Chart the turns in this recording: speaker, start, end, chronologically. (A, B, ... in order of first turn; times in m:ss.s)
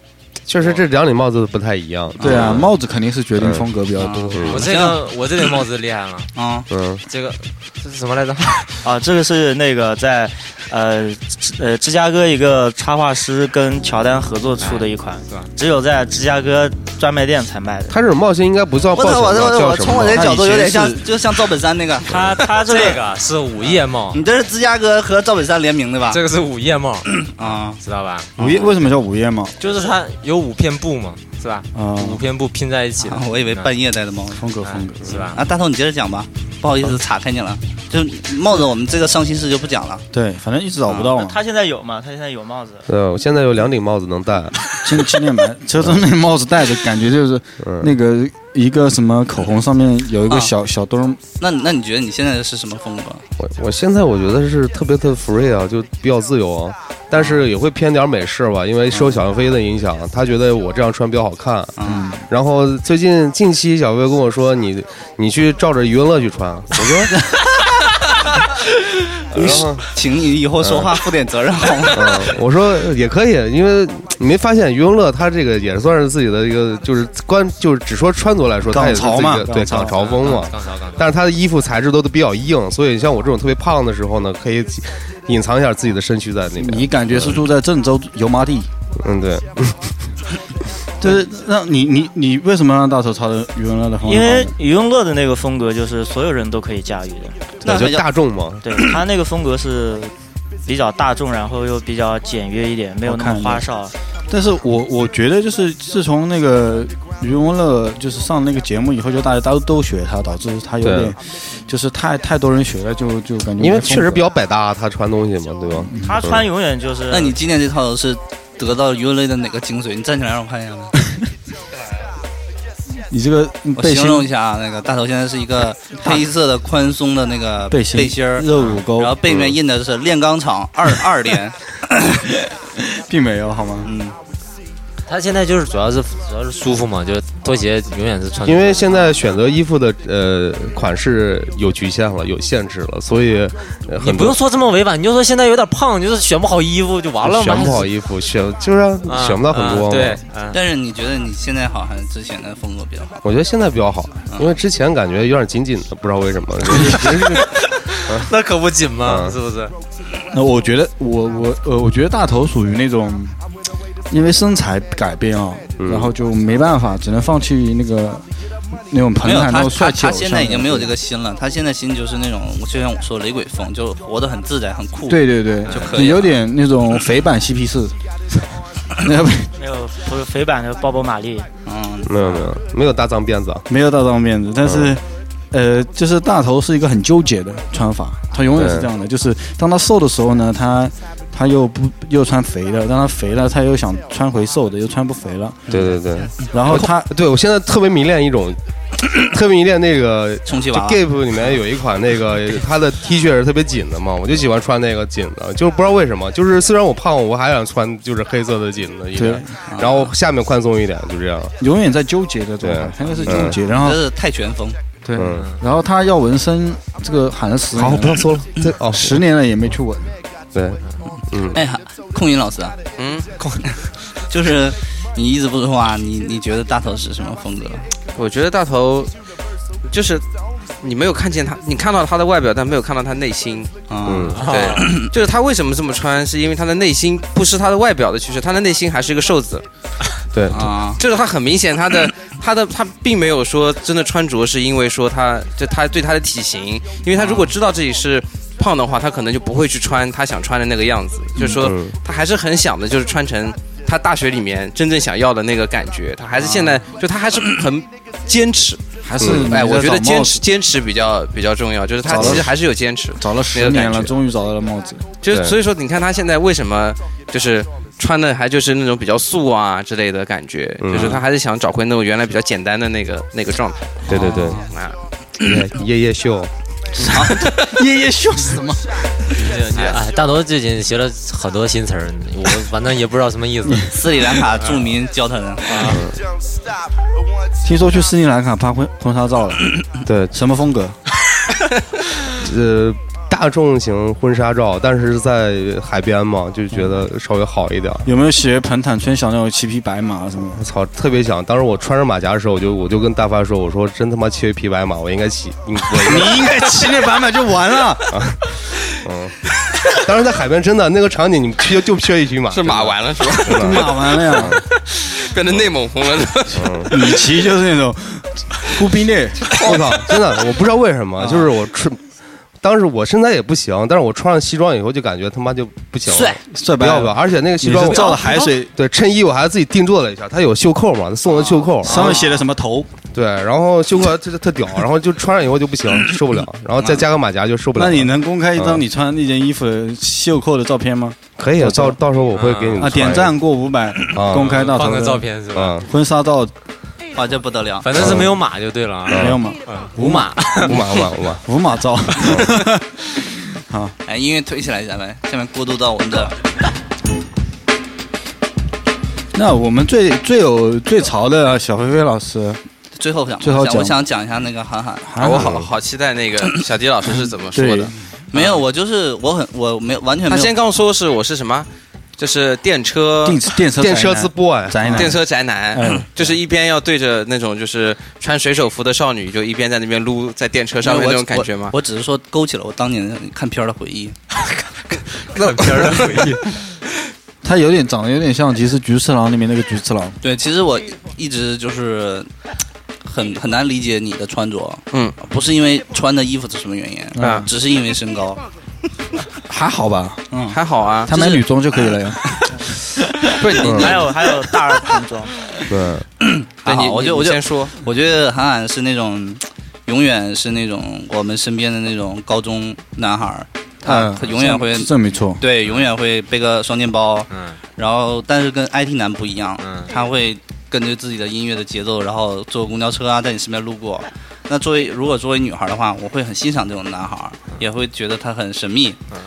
0:00.5-0:02.7 A
0:02.2-0:02.6 B
0:02.2-0:04.4 C
0:03.4-0:03.6 A
0:04.0-0:05.0 B
0:04.4-0:04.7 A
0:04.5-0:06.3 D
0:06.4-0:06.7 B
0:06.7-0:07.0 A
0:07.1-0:08.8 D
0:08.8-0:18.0 E
0:14.6-0:15.5 D
0:17.9-0:20.3 A
0:18.9-0:23.0 B
0:20.1-0:21.1 C
0:22.1-0:24.2 D
0:22.1-0:23.0 E
0:24.1-0:26.2 B
0:26.1-0:28.3 D
0:27.2-0:27.8 B
0:28.4-0:28.7 B
0:28.4-0:29.6 C
0:29.6-0:33.7 D
0:31.8-0:32.2 C
0:33.0-0:34.5 B
0:34.4-0:35.2 C
0:34.6-0:35.4 D
0:35.3-0:40.1 B
0:40.1-0:41.4 C
0:40.9-0:41.1 B
0:41.2-0:42.9 E
0:42.9-0:44.8 A
0:44.8-0:51.2 C
0:47.6-0:47.9 A
0:51.4-0:53.3 B
0:53.4-1:07.2 A
0:57.2-0:57.4 B
0:58.9-0:59.2 B
1:01.8-1:02.1 B
1:01.9-1:02.2 C
1:09.3-1:09.9 A
1:09.3-1:12.3 B
1:10.6-1:11.0 A
1:11.9-1:27.4 A
1:18.7-1:20.0 C
1:20.0-1:21.1 D
1:26.6-1:28.7 C
1:29.0-1:29.9 A
1:31.0-1:34.5 C
1:34.0-1:37.4 E
1:37.6-1:38.1 B
1:37.6-1:38.8 A
1:38.6-1:40.1 E
1:40.7-1:43.9 E
1:43.0-1:43.7 C
1:44.3-1:54.2 C
1:50.8-1:51.2 A
1:53.6-1:56.4 A
1:55.8-1:56.2 C
1:56.0-1:57.4 E
1:57.1-2:00.9 B
2:03.1-2:04.3 C
2:03.8-2:11.8 B
2:07.7-2:09.2 C
2:09.3-2:09.6 A
2:12.8-2:13.9 C
2:13.8-2:14.2 B
2:15.1-2:19.2 D
2:18.4-2:24.4 A
2:24.0-2:27.9 D
2:27.2-2:30.2 A
2:29.1-2:30.6 D
2:30.5-2:33.2 B
2:33.2-2:37.5 A
2:34.3-2:34.6 B
2:36.8-2:39.7 D
2:39.0-2:39.4 A
2:40.3-2:43.4 C
2:44.1-2:48.3 C
2:45.8-2:46.1 A
2:48.9-2:50.9 C
2:49.2-2:56.4 B
2:55.1-2:58.0 C
2:55.7-2:56.0 D
2:59.0-2:59.5 C
2:59.6-3:01.5 E
3:01.7-3:02.1 B
3:02.1-3:03.6 A
3:03.7-3:15.8 C
3:04.6-3:05.0 A
3:08.6-3:08.9 A
3:15.7-3:16.5 B
3:15.7-3:18.6 A
3:16.5-3:17.1 C
3:19.1-3:31.6 A
3:20.5-3:21.5 B
3:29.2-3:29.5 C
3:29.7-3:30.1 B
3:31.6-3:34.0 C
3:32.6-3:33.6 A
3:33.1-3:34.8 B
3:35.0-3:38.3 C
3:35.2-3:35.5 A
3:37.8-3:39.2 A
3:38.9-3:40.1 C
3:40.5-3:41.6 A
3:41.5-3:42.8 B
3:43.0-3:43.3 F
3:44.3-3:47.9 B
3:48.2-3:49.1 F
3:49.9-3:50.2 F
3:50.8-3:53.7 F
3:53.9-3:55.1 B
3:54.0-3:54.5 A
3:54.4-3:59.7 F
3:54.4-3:55.0 D
4:00.3-4:00.7 A
4:00.5-4:01.0 B
4:01.0-4:24.1 F
4:07.2-4:07.5 B
4:11.5-4:11.9 A
4:16.4-4:16.8 C
4:19.0-4:20.4 C
4:19.2-4:19.5 A
4:22.1-4:22.5 C
4:22.1-4:22.5 A
4:23.2-4:25.0 C
4:25.2-4:34.0 F
4:25.3-4:25.6 A
4:30.8-4:31.2 A
4:34.1-4:34.6 A
4:34.1-4:34.7 B
4:34.6-4:35.0 F
4:35.4-4:37.1 A
4:37.0-4:37.4 B
4:37.1-4:39.4 C
4:39.3-4:43.9 D
4:43.9-4:46.0 B
4:44.6-4:44.9 D
4:45.7-4:46.0 D
4:45.9-4:46.2 A
4:47.6-4:49.8 C
4:50.0-4:50.3 A
4:50.3-4:51.0 C
4:52.4-4:58.1 A
4:58.0-5:00.6 C
5:00.6-5:06.7 A
5:06.0-5:08.2 C
5:08.1-5:08.4 A
5:09.0-5:09.4 A
5:09.9-5:14.6 A
5:12.5-5:13.8 F
5:13.5-5:14.6 C
5:14.9-5:16.6 F
5:16.5-5:17.0 A
5:16.5-5:19.6 C
5:19.6-5:22.0 A
5:21.2-5:21.5 B
5:22.6-5:32.2 A
5:26.1-5:26.4 B
5:26.5-5:28.7 C
5:27.8-5:28.4 B
5:31.3-5:32.3 B
5:31.8-5:32.9 C
5:33.1-5:38.8 A
5:37.8-5:42.0 C
5:41.4-5:43.4 A
5:42.3-5:42.9 D
5:42.8-5:45.3 C
5:44.1-5:44.7 A
5:44.3-5:45.9 D
5:45.5-5:45.8 A
5:45.9-5:46.5 C
5:47.1-5:47.9 B
5:47.8-5:51.0 D
5:48.0-5:48.4 A
5:48.0-5:48.3 C
5:49.1-5:49.4 A
5:49.1-5:50.8 C
5:50.0-5:51.4 A
5:51.4-5:54.0 C
5:52.2-5:52.5 A
5:54.1-5:56.4 B
5:59.3-6:02.6 C
6:03.0-6:05.2 B
6:03.4-6:04.0 C
6:05.0-6:05.6 C
6:05.2-6:08.6 F
6:05.4-6:05.7 A
6:07.6-6:08.0 C
6:08.3-6:10.5 B
6:10.3-6:13.4 F
6:13.2-6:15.2 C
6:13.8-6:15.1 A
6:14.9-6:21.8 F
6:15.7-6:16.3 C
6:20.8-6:24.2 B
6:25.4-6:26.6 D
6:27.4-6:30.2 C
6:30.2-6:32.3 B
6:33.1-6:38.4 B
6:34.9-6:35.2 F
6:37.2-6:37.5 C
6:39.5-6:40.4 C
6:40.3-6:40.6 B
6:40.5-6:41.4 F
6:41.1-6:42.4 C
6:43.4-6:44.0 F
6:43.6-6:45.3 E
6:43.6-6:44.0 A
6:45.7-6:46.1 A
6:46.2-7:09.0 B
6:46.6-6:47.7 F
6:53.8-6:55.4 C
6:57.3-6:57.6 D
6:59.6-6:59.9 D